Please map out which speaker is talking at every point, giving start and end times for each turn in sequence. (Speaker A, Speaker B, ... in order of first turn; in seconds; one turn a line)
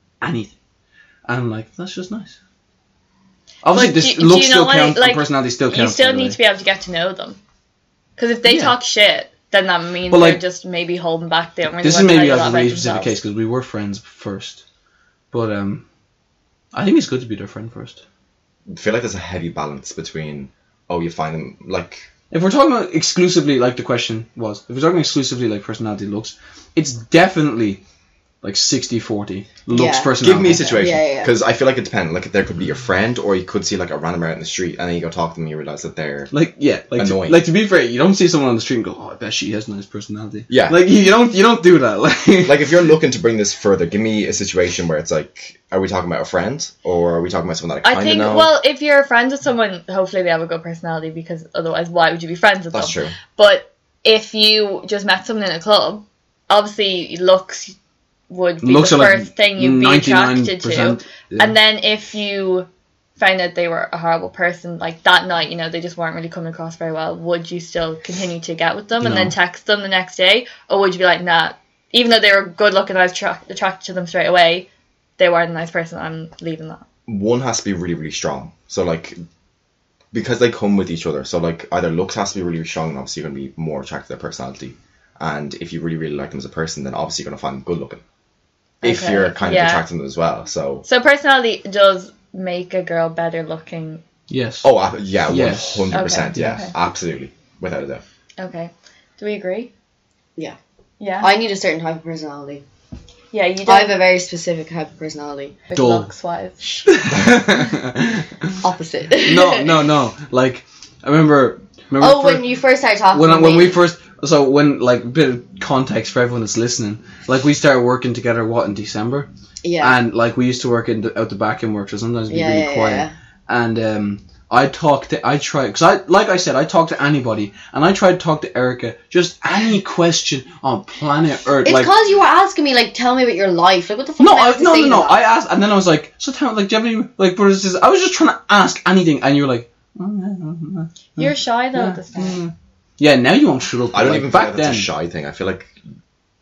Speaker A: 0.2-0.5
Speaker A: 1.3-2.4
Speaker A: 3.6-6.4
Speaker B: 3.7-7.4
Speaker B: 8.2-13.2
Speaker A: 8.4-8.8
Speaker A: 10.1-10.4
Speaker A: 11.8-14.6
Speaker A: 15.3-15.8
Speaker A: 16.7-18.0
Speaker C: 18.7-22.1
Speaker A: 22.3-27.8
Speaker A: 28.4-30.8
Speaker D: 29.7-31.3
Speaker C: 30.2-36.3
Speaker A: 36.3-42.7
Speaker C: 37.0-37.4
Speaker C: 40.5-40.8
Speaker C: 42.4-48.5
Speaker B: 47.8-57.8
Speaker C: 52.7-53.2
Speaker B: 58.3-76.8
Speaker A: 58.6-61.6
Speaker A: 69.0-69.3
Speaker C: 77.1-79.2
Speaker C: 80.1-88.0
Speaker B: 88.8-89.9
Speaker C: 88.8-90.8
Speaker B: 90.8-94.0
Speaker A: 94.3-94.7
Speaker C: 94.6-98.0
Speaker A: 95.3-96.6
Speaker B: 95.9-96.7
Speaker B: 98.4-99.7
Speaker B: 101.0-101.3
Speaker D: 101.2-102.6
Speaker B: 103.3-104.0
Speaker D: 103.7-105.6
Speaker B: 105.7-106.6
Speaker A: 105.8-106.1
Speaker A: 106.9-108.6
Speaker D: 108.6-109.7
Speaker A: 109.2-112.5
Speaker D: 112.0-113.8
Speaker A: 113.1-131.9
Speaker D: 119.6-120.0
Speaker D: 122.3-123.1
Speaker D: 131.7-135.2
Speaker A: 134.2-144.9
Speaker B: 141.2-142.4
Speaker C: 143.9-145.7